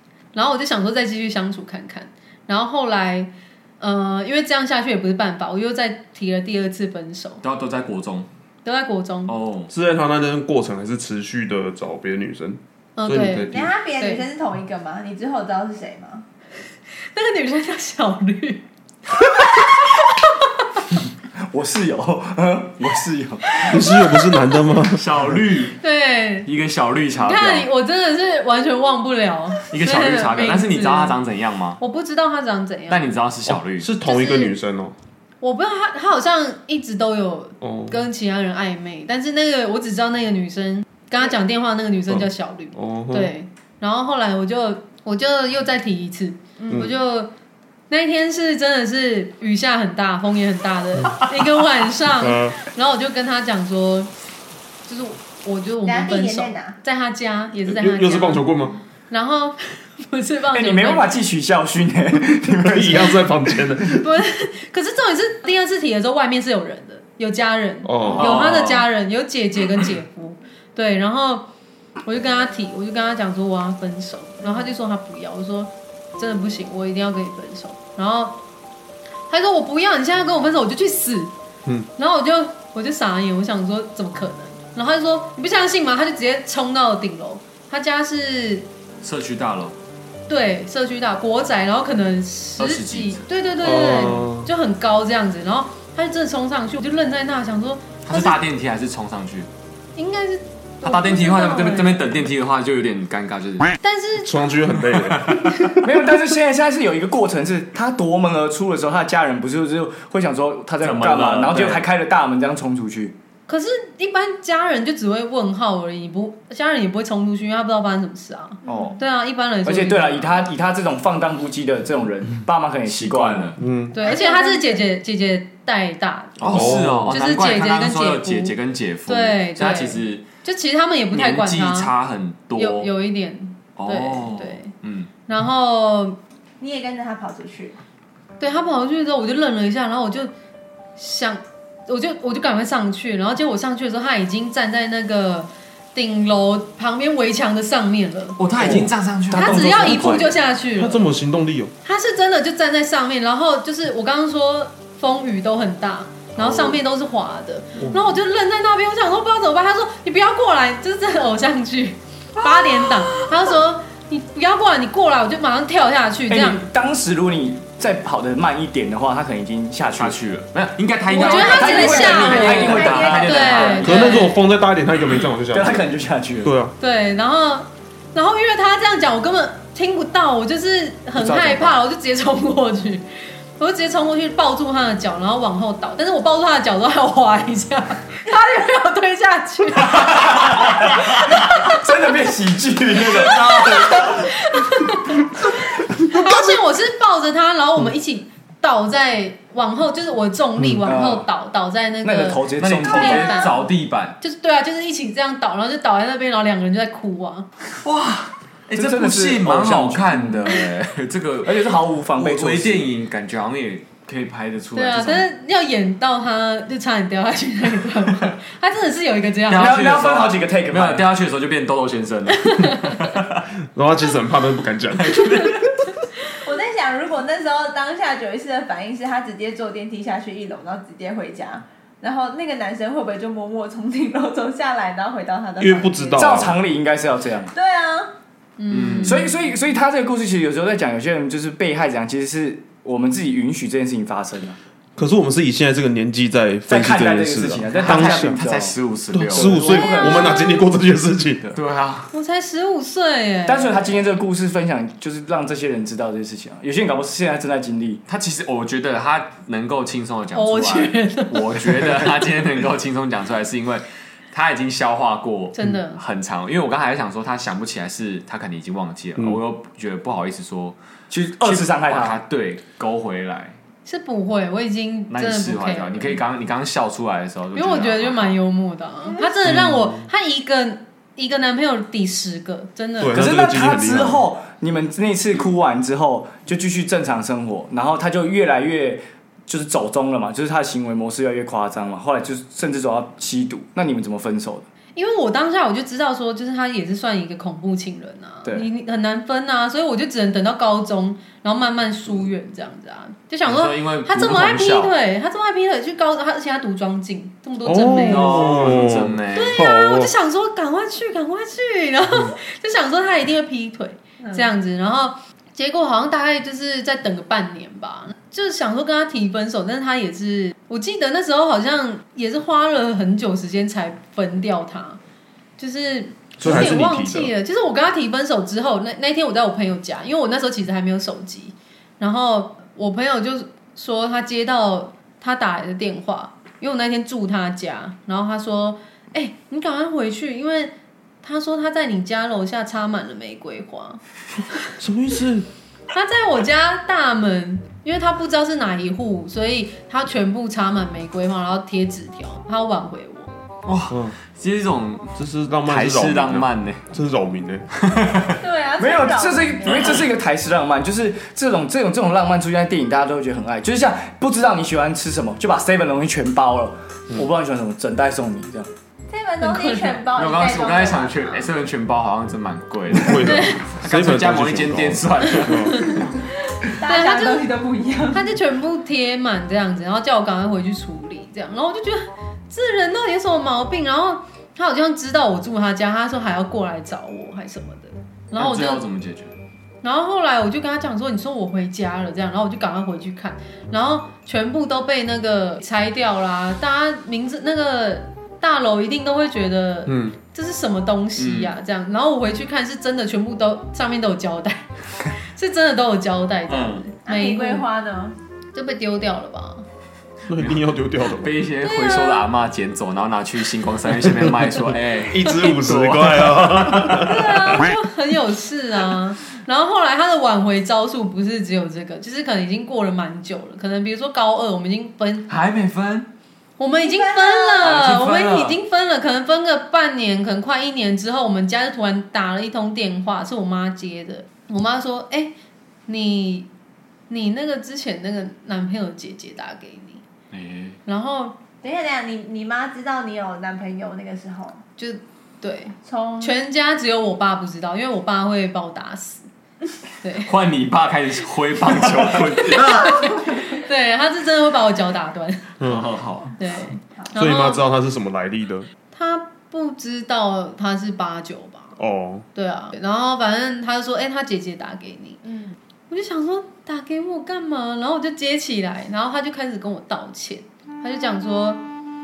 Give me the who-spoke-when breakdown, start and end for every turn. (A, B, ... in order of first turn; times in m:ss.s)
0:00.3-0:07.4 A
0:07.4-0:08.3 B
0:08.6-0:09.3 A
0:09.3-0:09.7 B
0:09.7-0:13.7 C
0:13.0-0:14.2 A
0:13.5-0:16.2 D
0:17.1-0:18.6 A
0:19.2-0:20.6 A
0:21.5-0:23.8 E
0:23.6-0:24.3 A
0:23.7-0:25.0 C
0:24.8-0:25.8 B
0:25.8-0:26.5 A
0:26.5-0:27.7 B
0:27.2-0:31.2 A
0:29.7-0:31.8 B
0:31.8-0:33.1 A
0:32.9-0:33.9 B
0:33.5-0:35.0 C
0:34.0-0:34.6 A
0:35.4-0:47.3 A
0:37.6-0:38.0 C
0:42.1-0:43.3 C
0:46.6-0:46.9 D
0:47.9-0:54.1 A
0:52.2-0:52.6 C
0:54.9-0:58.5 A
0:55.8-0:56.8 D
0:57.7-0:58.8 C
0:59.1-1:01.1 A
1:00.5-1:03.5 E
1:02.6-1:04.0 C
1:03.8-1:11.5 A
1:07.8-1:08.4 C
1:08.1-1:08.9 B
1:12.1-1:18.4 A
1:19.3-1:21.3 A
1:22.0-1:28.7 A
1:29.0-1:29.8 B
1:30.3-1:38.4 A
1:32.6-1:33.2 B
1:33.6-1:34.5 C
1:38.1-1:39.5 B
1:40.0-1:42.2 A
1:40.8-1:43.8 B
1:43.8-1:44.4 A
1:44.2-1:45.8 C
1:44.9-1:45.4 B
1:45.8-1:53.2 E
1:50.8-1:51.9 B
1:53.5-2:00.4 A
1:58.7-1:59.0 D
1:58.7-1:59.0 E
1:59.6-2:03.6 E
2:02.9-2:03.6 B
2:03.6-2:04.0 C
2:03.9-2:08.6 A
2:04.0-2:04.8 D
2:06.4-2:10.3 B
2:06.4-2:07.1 C
2:09.1-2:11.9 A
2:11.1-2:12.9 B
2:12.6-2:14.7 A
2:13.8-2:15.1 B
2:15.3-2:16.2 A
2:16.6-2:17.8 D
2:18.4-2:20.3 A
2:21.0-2:28.4 A
2:28.4-2:30.0 B
2:28.6-2:30.4 E
2:28.6-2:28.9 C
2:29.3-2:31.1 A
2:30.8-2:31.7 C
2:31.8-2:46.7 A
2:36.4-2:36.7 B
2:37.8-2:38.1 C
2:46.3-2:50.2 E
2:49.9-2:54.3 B
2:51.1-2:54.4 A
2:51.2-2:53.9 D
2:51.3-2:54.0 E
2:53.8-2:55.8 C
2:55.5-2:56.5 E
2:56.4-2:56.7 C
2:56.8-3:10.3 A
3:09.9-3:10.3 B
3:10.0-3:14.3 E
3:13.1-3:15.4 A
3:16.0-3:23.7 A
3:20.6-3:20.9 C
3:20.8-3:21.3 E
3:22.0-3:23.5 E
3:22.6-3:24.2 B
3:24.2-3:27.5 A
3:27.8-3:35.3 B
3:28.8-3:30.5 E
3:31.4-3:32.9 E
3:34.8-3:39.8 A
3:39.5-3:43.5 B
3:39.5-3:41.1 E
3:42.4-3:43.0 A
3:43.7-3:45.5 C
3:45.0-3:45.8 B
3:46.4-3:56.4 D
3:55.6-3:56.6 C
3:56.2-3:57.5 E
3:57.5-3:58.1 D
3:58.6-3:59.3 A
3:58.7-3:59.3 B
3:59.0-4:04.6 E
4:05.0-4:08.4 C
4:06.7-4:08.8 E
4:07.7-4:09.6 B
4:09.1-4:11.5 C
4:09.3-4:10.5 E
4:09.7-4:10.5 A
4:11.5-4:12.1 B
4:12.1-4:13.8 A
4:13.5-4:18.0 E
4:18.1-4:30.8 B
4:20.4-4:22.0 A
4:25.5-4:26.0 A
4:31.1-4:32.2 E
4:31.4-4:33.6 B
4:33.8-4:36.2 A
4:35.1-4:38.4 B
4:37.6-4:43.2 A
4:39.4-4:40.1 C
4:43.0-4:44.3 C
4:43.1-4:54.7 E
4:55.0-5:08.6 A
5:03.4-5:04.9 B
5:07.6-5:10.1 C
5:08.0-5:09.6 B
5:09.3-5:25.0 A
5:25.6-5:44.0 A
5:26.4-5:27.3 C
5:44.8-5:45.5 C
5:45.9-5:53.3 A
5:53.6-5:56.8 B
5:53.9-5:54.2 C
5:55.2-5:57.7 C
5:57.8-5:58.3 B
5:58.4-6:00.0 D
5:58.8-6:08.7 E
6:09.1-6:11.5 D
6:09.4-6:10.0 A
6:10.1-6:16.0 B
6:12.9-6:16.0 C
6:13.2-6:13.6 A
6:15.7-6:16.1 A
6:16.7-6:18.3 D
6:16.8-6:17.5 A
6:18.1-6:28.8 A
6:28.4-6:29.3 B
6:29.8-6:47.7 A
6:39.9-6:40.2 C
6:41.2-6:41.5 B
6:46.5-6:46.9 B
6:47.0-6:48.2 D
6:48.5-6:49.6 A
6:50.3-6:51.4 C
6:50.4-6:57.1 B
6:51.6-6:52.3 A
6:55.0-6:57.4 C
6:57.0-7:05.3 A
7:05.3-7:06.1 B
7:06.6-7:15.3 A
7:06.8-7:07.6 D
7:07.6-7:08.6 B
7:15.9-7:16.5 A
7:17.1-7:20.0 A
7:20.3-7:20.8 B
7:20.9-7:21.4 A
7:21.6-7:24.6 D
7:24.8-7:29.3 A
7:25.8-7:26.4 D
7:30.0-7:30.3 A
7:30.2-7:33.1 B
7:32.5-7:35.5 A
7:35.6-7:35.9 C
7:35.6-7:36.3 B
7:36.4-7:37.6 A
7:37.2-7:38.7 C
7:38.9-7:41.8 A
7:41.8-7:42.3 C
7:42.4-7:45.2 A
7:45.2-7:45.6 D
7:45.9-7:51.6 A